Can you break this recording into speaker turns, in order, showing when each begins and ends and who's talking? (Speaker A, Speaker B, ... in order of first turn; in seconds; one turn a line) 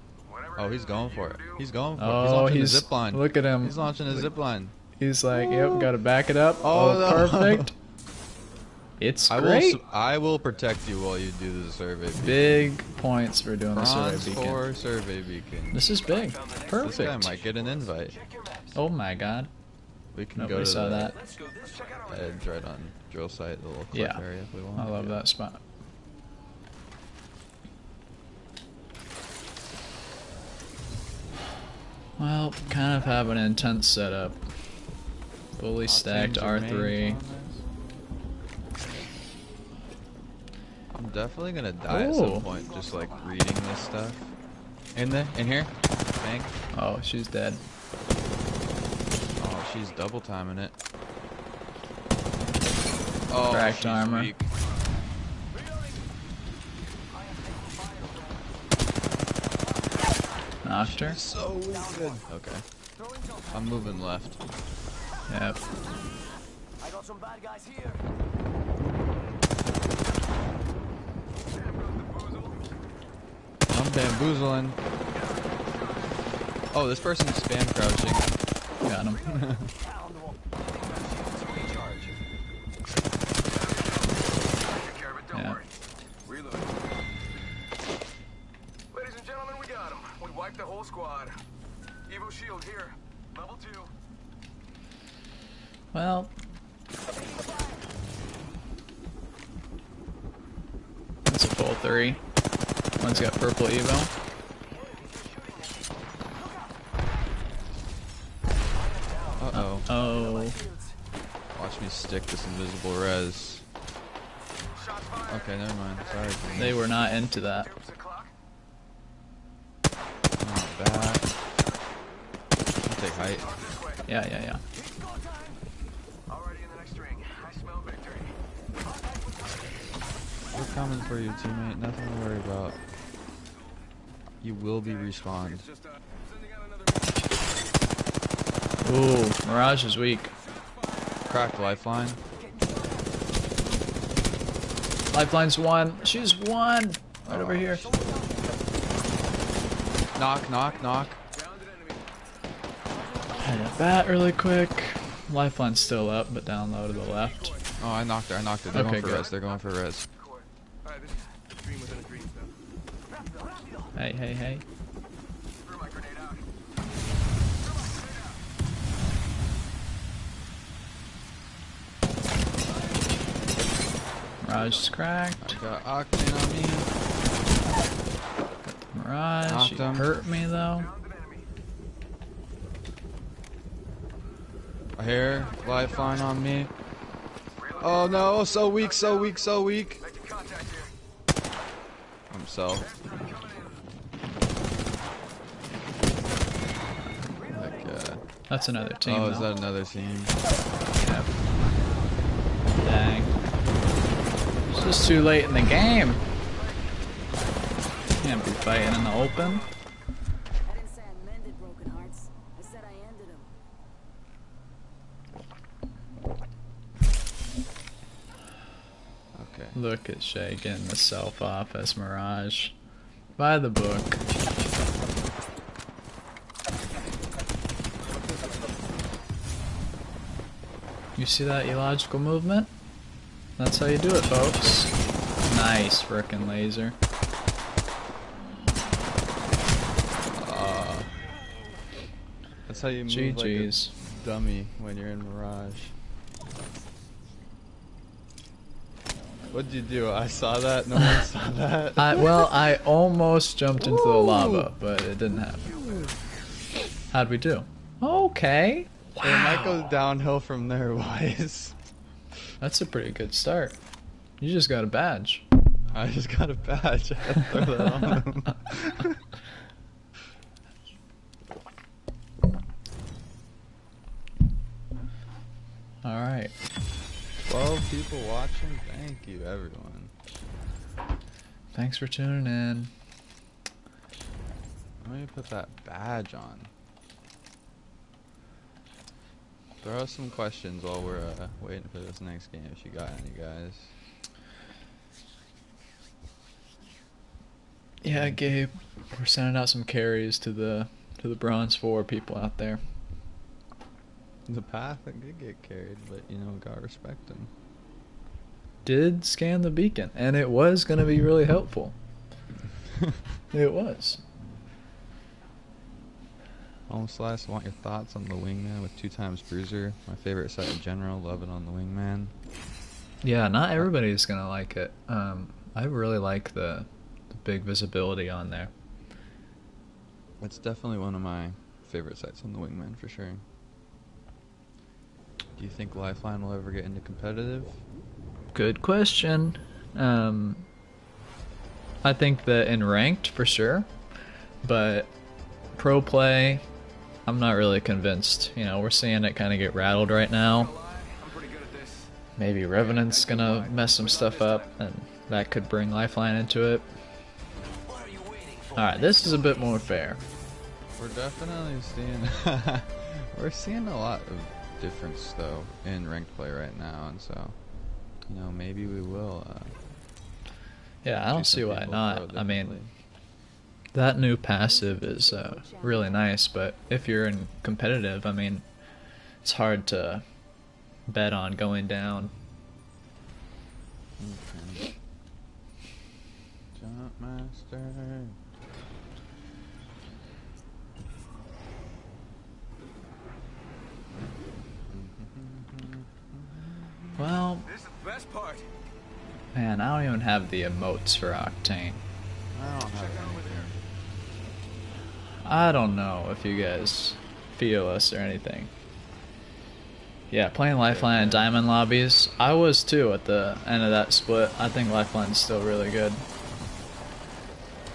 Speaker A: 0.2-1.7
Speaker B: 0.5-4.7
Speaker C: 2.0-4.3
Speaker C: 5.0-7.7
Speaker B: 5.3-5.9
Speaker B: 6.6-7.7
Speaker C: 9.0-9.8
Speaker B: 9.3-12.7
Speaker C: 12.2-14.6
Speaker B: 13.7-16.0
Speaker C: 15.7-17.4
Speaker A: 16.1-16.5
Speaker D: 16.1-18.8
Speaker B: 16.7-18.2
Speaker C: 18.7-19.5
Speaker B: 20.1-21.2
Speaker C: 20.3-21.2
Speaker D: 21.1-22.3
Speaker A: 21.3-22.4
Speaker B: 22.0-25.2
Speaker C: 23.9-24.2
Speaker C: 24.7-25.6
Speaker C: 32.2-34.4
Speaker C: 35.6-37.2
Speaker B: 35.8-37.6
Speaker B: 40.9-44.3
Speaker C: 41.8-42.5
Speaker D: 42.5-44.0
Speaker B: 44.9-46.5
Speaker C: 46.7-47.6
Speaker B: 49.4-50.8
Speaker B: 53.3-54.5
Speaker C: 53.5-54.3
Speaker D: 55.5-56.0
Speaker D: 57.1-58.5
Speaker D: 59.5-60.5
Speaker C: 60.6-61.2
Speaker B: 60.7-62.6
Speaker D: 61.7-62.2
Speaker D: 63.0-63.7
Speaker B: 63.5-64.4
Speaker C: 65.3-65.6
Speaker D: 66.8-68.0
Speaker A: 71.5-72.8
Speaker B: 73.7-74.8
Speaker A: 75.1-76.1
Speaker B: 76.7-78.3
Speaker C: 78.8-79.3
Speaker B: 79.2-79.7
Speaker D: 79.3-80.3
Speaker D: 80.9-82.1
Speaker A: 81.0-81.9
Speaker A: 83.4-86.9
Speaker C: 85.3-85.6
Speaker A: 88.9-91.4
Speaker A: 92.1-93.9
Speaker C: 95.9-96.3
Speaker D: 97.3-97.7
Speaker C: 101.2-102.2
Speaker C: 103.0-104.1
Speaker B: 103.0-103.3
Speaker A: 104.8-105.3
Speaker D: 106.3-106.8
Speaker D: 108.8-111.0
Speaker B: 109.4-109.9
Speaker C: 109.5-110.6
Speaker B: 111.5-113.6
Speaker A: 114.7-118.3
Speaker B: 115.3-116.8
Speaker C: 116.5-117.7
Speaker B: 120.4-121.3
Speaker B: 122.8-123.6
Speaker A: 123.2-124.0
Speaker C: 124.1-124.6
Speaker D: 124.7-125.6
Speaker A: 126.3-128.4
Speaker B: 130.5-132.8
Speaker B: 134.4-135.7
Speaker A: 134.8-137.1
Speaker C: 138.8-140.3
Speaker A: 140.6-141.7
Speaker B: 141.2-142.2
Speaker D: 142.3-143.2
Speaker C: 145.1-147.9
Speaker B: 147.2-147.9
Speaker D: 147.7-148.6
Speaker B: 150.1-151.2
Speaker A: 150.9-152.1
Speaker D: 152.9-153.7
Speaker C: 153.4-157.5
Speaker A: 156.9-157.7
Speaker B: 157.8-160.1
Speaker A: 158.7-162.5
Speaker C: 158.7-159.3
Speaker D: 163.1-163.9
Speaker C: 163.9-164.6
Speaker A: 165.6-166.5
Speaker A: 167.6-168.4
Speaker C: 174.4-175.6
Speaker B: 175.4-176.9
Speaker C: 178.7-180.9
Speaker B: 179.4-180.1
Speaker A: 180.5-181.5
Speaker B: 184.9-186.7
Speaker A: 185.2-186.3
Speaker A: 187.6-190.9
Speaker B: 187.8-190.0
Speaker B: 192.3-192.9
Speaker A: 192.8-193.8
Speaker B: 197.5-198.2
Speaker C: 198.5-199.5
Speaker B: 199.0-200.4
Speaker C: 200.9-201.3
Speaker C: 202.8-203.4
Speaker C: 204.7-206.2
Speaker A: 206.6-206.8
Speaker A: 208.1-209.7
Speaker C: 208.2-209.7
Speaker E: 210.7-213.5
Speaker B: 219.3-219.8
Speaker C: 219.7-222.7
Speaker C: 223.4-224.2
Speaker C: 231.2-232.7
Speaker C: 233.6-234.9
Speaker C: 235.4-236.9
Speaker B: 240.3-241.1
Speaker B: 242.7-245.9
Speaker C: 243.1-243.9
Speaker B: 249.5-252.5
Speaker C: 252.0-255.7
Speaker B: 253.8-254.7
Speaker B: 255.6-256.1
Speaker C: 257.1-259.9
Speaker B: 259.2-261.7
Speaker C: 262.6-263.8
Speaker C: 264.4-265.4
Speaker B: 265.9-269.2
Speaker C: 276.0-276.5
Speaker B: 277.4-280.1
Speaker C: 281.7-282.9
Speaker B: 285.0-286.7
Speaker B: 289.8-293.9
Speaker C: 298.0-302.8
Speaker B: 304.5-307.5
Speaker C: 308.8-311.9
Speaker C: 313.5-314.2
Speaker B: 316.9-322.3
Speaker C: 323.2-328.7
Speaker B: 330.4-333.4
Speaker B: 335.6-337.8
Speaker C: 338.5-340.6
Speaker C: 342.0-343.9
Speaker C: 344.6-345.1
Speaker C: 345.7-346.6
Speaker C: 347.2-350.7
Speaker A: 350.4-352.1
Speaker C: 352.4-356.9
Speaker A: 352.7-354.8
Speaker D: 357.7-359.7
Speaker C: 358.7-360.2
Speaker B: 360.9-367.6
Speaker B: 368.2-369.8
Speaker C: 371.0-372.8
Speaker B: 371.1-372.9
Speaker C: 373.9-378.7
Speaker E: 374.6-376.4
Speaker C: 379.4-380.2
Speaker C: 381.1-382.3
Speaker B: 384.2-384.9
Speaker B: 386.7-388.4
Speaker B: 394.9-397.3
Speaker C: 397.2-397.7
Speaker A: 397.6-398.7
Speaker C: 399.5-402.0
Speaker B: 402.5-403.8
Speaker A: 402.9-403.7
Speaker C: 405.4-408.7
Speaker C: 410.3-416.2
Speaker B: 410.8-411.7